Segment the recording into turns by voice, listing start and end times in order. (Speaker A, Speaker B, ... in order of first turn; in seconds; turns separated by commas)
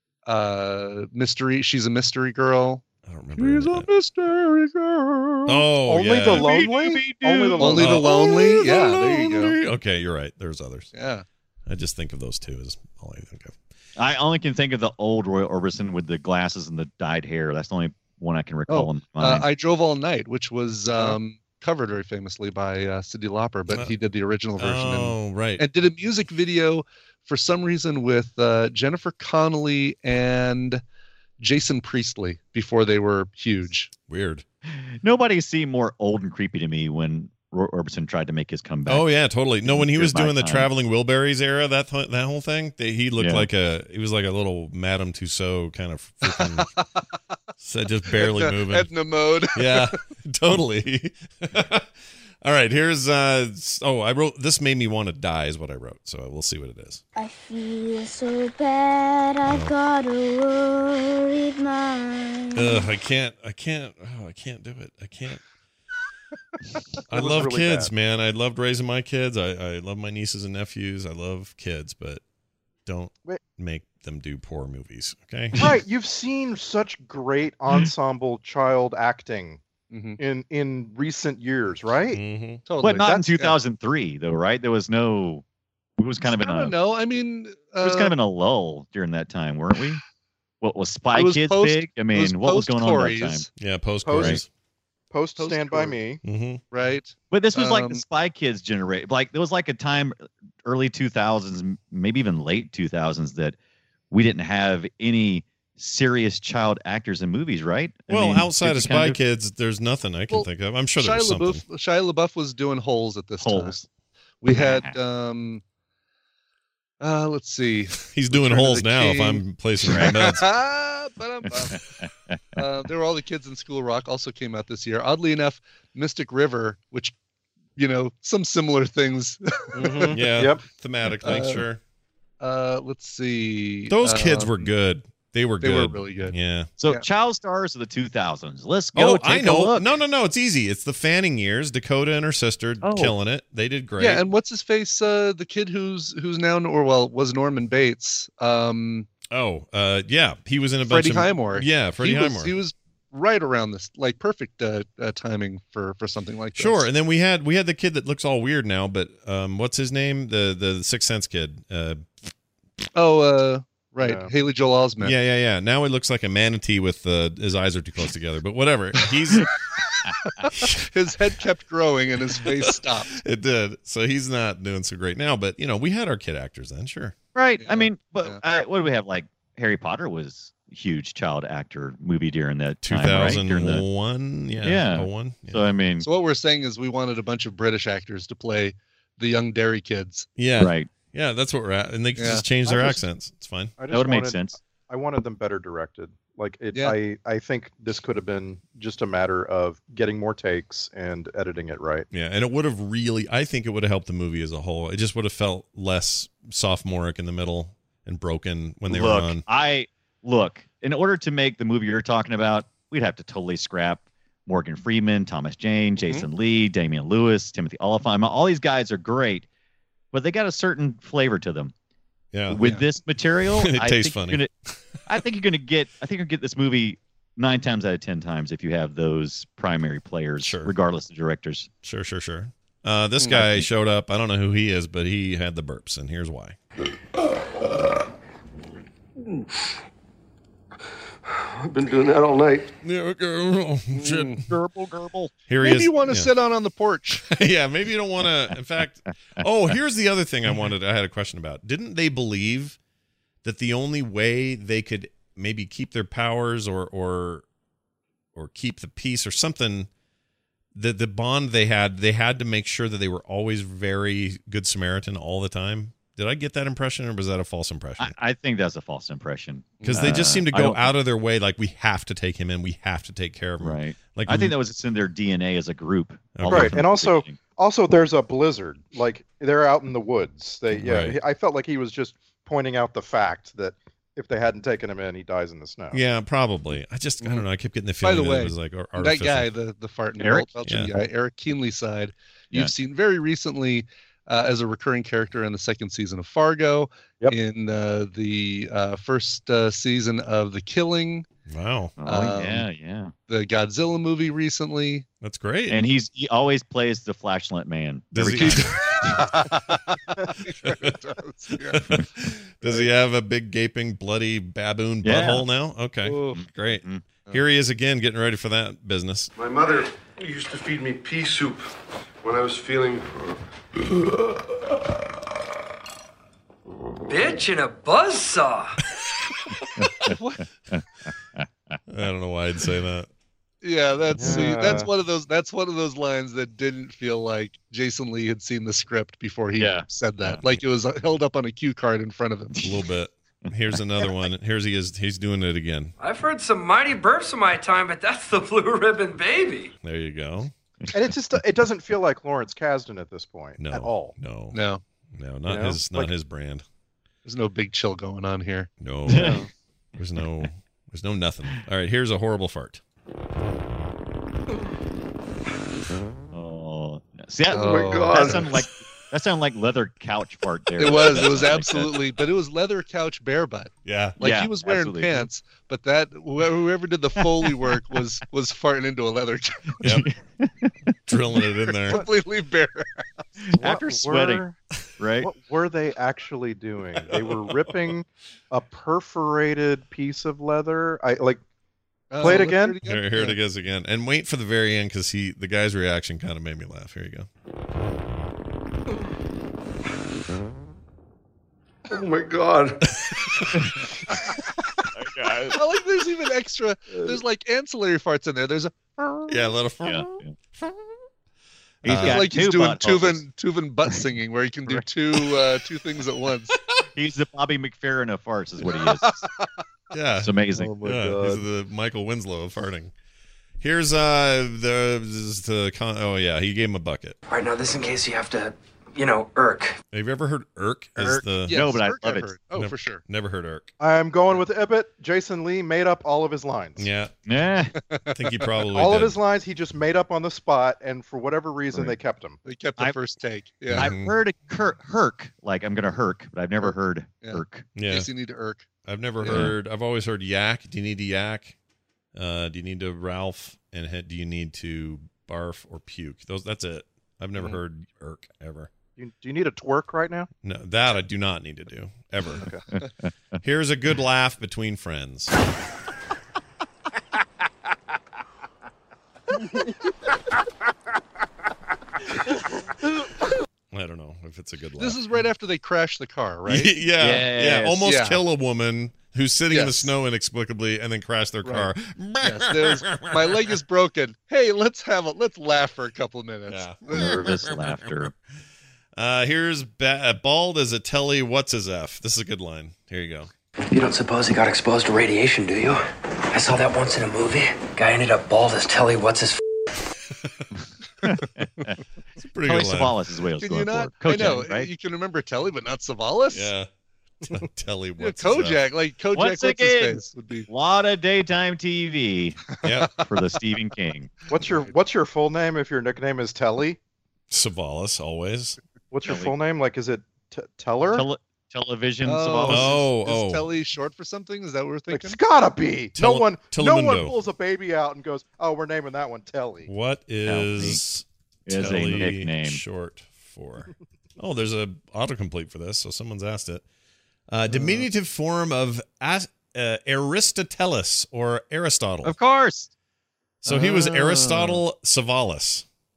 Speaker A: 0.2-2.8, Speaker B: 3.0-3.9, Speaker A: 3.4-5.7, Speaker B: 5.5-6.7, Speaker C: 5.8-8.0, Speaker D: 6.3-8.0, Speaker B: 7.5-10.9, Speaker A: 7.6-9.6, Speaker A: 10.9-11.2, Speaker B: 11.7-13.6, Speaker D: 14.0-19.4, Speaker A: 18.7-30.8, Speaker B: 24.6-25.6, Speaker A: 31.4-33.9, Speaker B: 34.1-34.4, Speaker D: 34.7-39.1, Speaker B: 38.9-46.6, Speaker D: 39.6-40.7, Speaker D: 43.2-43.5, Speaker A: 46.3-47.0, Speaker B: 47.6-48.9, Speaker A: 48.1-50.0, Speaker B: 49.5-51.9, Speaker B: 52.4-57.0, Speaker E: 57.1-62.9, Speaker B: 59.5-59.7, Speaker B: 62.5-65.4, Speaker B: 67.0-72.2, Speaker C: 67.1-67.9, Speaker B: 72.8-75.7, Speaker C: 75.6-79.6, Speaker A: 79.9-80.2, Speaker C: 80.2-82.2, Speaker B: 82.1-82.6, Speaker A: 82.7-83.5, Speaker D: 82.8-85.4, Speaker C: 83.0-83.3, Speaker D: 86.0-86.7, Speaker A: 86.4-88.1, Speaker D: 87.8-90.0, Speaker D: 90.6-93.5, Speaker A: 91.1-93.5, Speaker B: 93.6-94.5, Speaker C: 94.0-94.4, Speaker D: 94.2-94.4, Speaker C: 95.1-96.2, Speaker A: 95.4-96.0, Speaker B: 96.2-96.6, Speaker A: 96.7-98.0, Speaker D: 97.3-103.5, Speaker D: 104.1-109.2, Speaker B: 108.1-111.6, Speaker A: 110.3-113.8, Speaker D: 113.4-113.8, Speaker A: 114.4-115.6, Speaker D: 114.5-115.0, Speaker A: 117.0-121.8, Speaker B: 118.1-120.5, Speaker D: 119.9-120.1, Speaker D: 121.6-122.6, Speaker A: 122.5-127.1, Speaker A: 127.8-130.2, Speaker C: 129.8-130.6, Speaker B: 130.1-131.8, Speaker A: 131.2-131.6, Speaker A: 132.4-134.7, Speaker B: 133.9-136.7, Speaker A: 135.6-136.3, Speaker D: 136.8-139.9, Speaker B: 138.9-144.2, Speaker D: 142.8-143.1, Speaker A: 144.0-149.1, Speaker B: 149.3-152.5, Speaker A: 150.8-156.9, Speaker B: 156.6-162.0, Speaker A: 162.9-165.1, Speaker C: 164.0-164.3, Speaker B: 165.0-169.5, Speaker A: 170.4-173.2, Speaker B: 170.5-170.8, Speaker B: 173.1-177.1, Speaker D: 177.3-183.8, Speaker A: 177.6-178.4, Speaker B: 182.8-185.7, Speaker D: 184.6-186.1, Speaker A: 186.0-190.3, Speaker B: 190.4-193.7, Speaker D: 190.6-190.9, Speaker A: 192.2-192.5, Speaker C: 192.7-193.0, Speaker C: 193.8-202.1, Speaker D: 193.9-194.6, Speaker A: 196.7-197.0, Speaker B: 202.1-209.4, Speaker D: 208.9-219.4, Speaker D: 220.1-221.7, Speaker B: 222.3-222.6, Speaker D: 222.5-224.5, Speaker B: 223.5-224.8, Speaker D: 225.1-231.7, Speaker B: 230.4-230.7, Speaker B: 231.8-236.6, Speaker D: 233.3-233.7, Speaker F: 241.6-242.7, Speaker B: 242.8-244.4, Speaker A: 243.9-244.4, Speaker D: 244.5-245.3, Speaker B: 245.5-246.3, Speaker A: 245.6-247.2, Speaker B: 247.3-252.8, Speaker B: 253.4-257.4, Speaker B: 258.3-259.9, Speaker B: 260.7-268.1, Speaker D: 268.0-270.9, Speaker A: 269.8-270.2, Speaker B: 269.8-274.5, Speaker D: 273.6-277.4, Speaker B: 276.4-276.8, Speaker C: 276.5-286.0, Speaker B: 280.8-281.2, Speaker B: 285.9-289.5, Speaker A: 288.0-301.2, Speaker D: 290.2-290.5, Speaker B: 290.6-290.9, Speaker B: 301.5-301.9, Speaker D: 302.0-303.1, Speaker A: 302.1-302.6, Speaker A: 303.3-305.0, Speaker B: 305.2-305.9, Speaker D: 305.7-309.2, Speaker B: 308.1-308.9, Speaker A: 308.3-311.9, Speaker B: 311.7-319.3, Speaker A: 312.6-312.9, Speaker D: 315.0-315.4, Speaker A: 316.0-316.4, Speaker D: 316.3-317.0, Speaker F: 319.3-321.7, Speaker F: 322.2-323.1, Speaker G: 327.1-328.8, Speaker A: 330.1-330.4, Speaker D: 330.7-331.7, Speaker B: 331.9-333.1, Speaker A: 333.6-342.6, Speaker C: 334.1-334.9, Speaker D: 334.1-334.8, Speaker D: 339.6-339.9, Speaker B: 342.6-345.9, Speaker G: 346.0-349.7, Speaker B: 349.8-350.5, Speaker C: 350.9-354.1, Speaker B: 353.6-354.6, Speaker A: 354.5-354.8, Speaker B: 355.1-356.6, Speaker C: 355.5-356.1, Speaker A: 357.2-358.7, Speaker B: 358.8-359.4, Speaker D: 359.1-359.4, Speaker C: 359.1-359.5, Speaker B: 359.9-362.8, Speaker D: 366.3-372.0, Speaker A: 367.5-368.6, Speaker F: 367.5-368.6, Speaker A: 370.8-379.8, Speaker B: 373.9-374.2, Speaker D: 374.2-375.3, Speaker D: 379.8-380.9, Speaker B: 381.1-382.0, Speaker A: 381.9-383.0, Speaker D: 383.4-384.4, Speaker C: 383.5-384.6, Speaker D: 385.0-385.3, Speaker C: 385.2-391.4, Speaker A: 392.1-393.4, Speaker C: 392.2-392.8, Speaker B: 392.3-397.3, Speaker F: 401.9-402.8, Speaker D: 404.9-405.5, Speaker A: 405.5-409.3, Speaker F: 406.9-407.2, Speaker B: 409.3-410.1, Speaker D: 409.8-410.3, Speaker B: 411.8-412.3, Speaker D: 411.8-413.2, Speaker A: 411.9-416.6, Speaker D: 416.9-419.2, Speaker A: 418.8-419.4, Speaker B: 419.9-422.9, Speaker D: 420.2-420.8, Speaker C: 420.6-421.4, Speaker B: 423.6-427.2, Speaker G: 427.3-429.8, Speaker B: 429.9-431.6, Speaker D: 431.0-432.3, Speaker A: 431.4-433.0, Speaker B: 432.5-433.7, Speaker C: 433.8-436.9, Speaker B: 436.8-437.1, Speaker D: 437.2-437.8, Speaker A: 437.8-438.5, Speaker B: 438.1-439.2, Speaker C: 438.7-442.4, Speaker A: 442.4-443.9, Speaker B: 443.7-444.1, Speaker D: 443.7-447.7, Speaker A: 446.6-448.7, Speaker B: 447.7-448.1, Speaker B: 448.8-451.5, Speaker A: 449.2-449.5, Speaker D: 449.2-449.5, Speaker B: 452.1-458.7, Speaker C: 459.0-460.3, Speaker B: 460.4-462.4, Speaker D: 462.7-463.1, Speaker B: 463.4-465.3, Speaker B: 473.7-475.0, Speaker A: 474.8-476.8, Speaker B: 476.4-483.5, Speaker D: 477.0-477.8, Speaker A: 477.8-478.2, Speaker A: 479.5-479.9, Speaker A: 481.4-487.5, Speaker B: 486.5-487.9, Speaker D: 486.9-488.1, Speaker B: 488.9-493.3, Speaker G: 493.7-499.4, Speaker D: 501.0-501.7, Speaker B: 502.2-502.9, Speaker D: 502.4-504.7, Speaker A: 503.4-506.5, Speaker B: 506.3-506.7, Speaker B: 507.2-508.6, Speaker A: 508.0-510.5, Speaker D: 509.1-512.4, Speaker A: 512.5-513.0, Speaker B: 512.6-512.9, Speaker D: 513.0-514.1, Speaker C: 514.3-516.8, Speaker B: 517.3-518.6, Speaker C: 518.9-521.1, Speaker D: 519.0-519.3, Speaker D: 520.9-522.8, Speaker A: 522.0-525.2, Speaker B: 522.5-523.5, Speaker C: 524.9-529.7, Speaker B: 526.0-527.1, Speaker B: 529.7-536.6, Speaker D: 530.2-530.8, Speaker D: 531.5-532.6, Speaker B: 537.3-542.1, Speaker A: 537.5-537.9, Speaker D: 542.0-542.7, Speaker B: 543.4-545.6, Speaker A: 543.5-544.6